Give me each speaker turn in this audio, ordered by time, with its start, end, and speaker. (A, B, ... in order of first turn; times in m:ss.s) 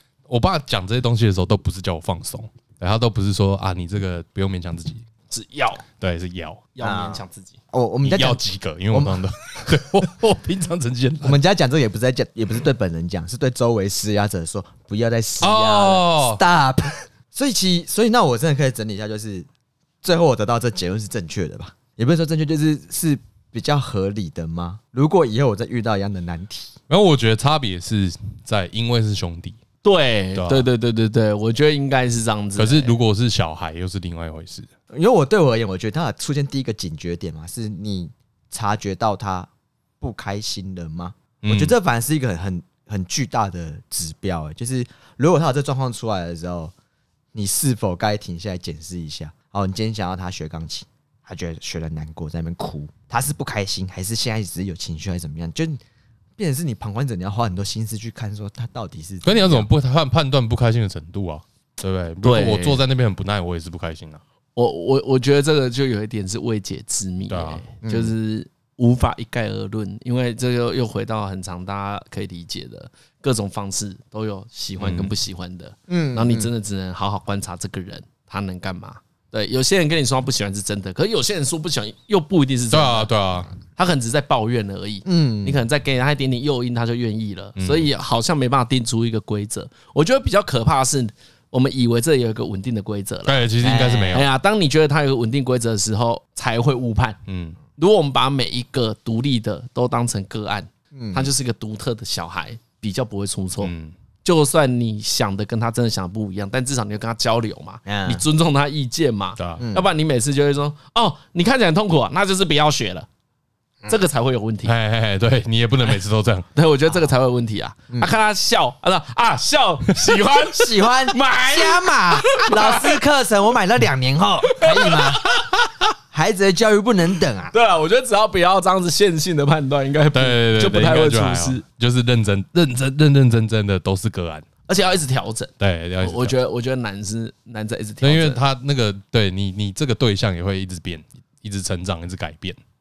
0:00.3-0:05.0 A
0:05.3-0:05.8 B
0:06.0-0:06.6 A
0:06.8-0:07.6 B
0:06.8-0:08.4 C
0:08.0-0:11.4 A
0:08.9-0:09.8 C
0:11.2-0:19.5 C
0:15.4-0:16.4 A
0:20.0-0:26.7 C
0:26.9-0:29.6 A
0:29.8-0:32.9 B
0:30.3-0:30.7 A
0:32.6-0:34.7 A
0:34.9-0:39.5 C
0:40.0-0:46.7 C
0:41.4-0:41.7 A
0:47.3-0:55.8 C
0:56.4-0:59.7 C
0:59.2-1:04.2 A
1:02.2-1:02.8 B
1:04.6-1:23.1 B
1:07.3-1:07.6 A
1:07.8-1:08.1 C
1:14.8-1:15.1 A
1:15.9-1:16.5 C
1:22.7-1:23.5 A
1:23.7-1:33.4 B
1:25.0-1:25.6 C
1:27.6-1:27.9 A
1:33.2-1:34.3 A
1:33.6-1:34.2 C
1:34.1-1:37.2 B
1:37.3-1:37.6 A
1:37.8-1:43.7 B
1:40.9-1:41.3 C
1:43.6-1:43.9 A
1:44.2-1:53.1 B
1:47.8-1:48.2 C
1:49.4-1:49.6 A
1:49.6-1:49.9 C
1:53.9-1:54.7 B
1:54.6-1:56.5 A
1:56.5-2:02.9 B
2:00.4-2:05.2 C
2:04.5-2:05.5 B
2:06.1-2:07.5 C
2:07.5-2:11.6 B
2:10.1-2:14.5 A
2:14.7-2:18.4 B
2:15.6-2:16.4 A
2:18.0-2:22.6 A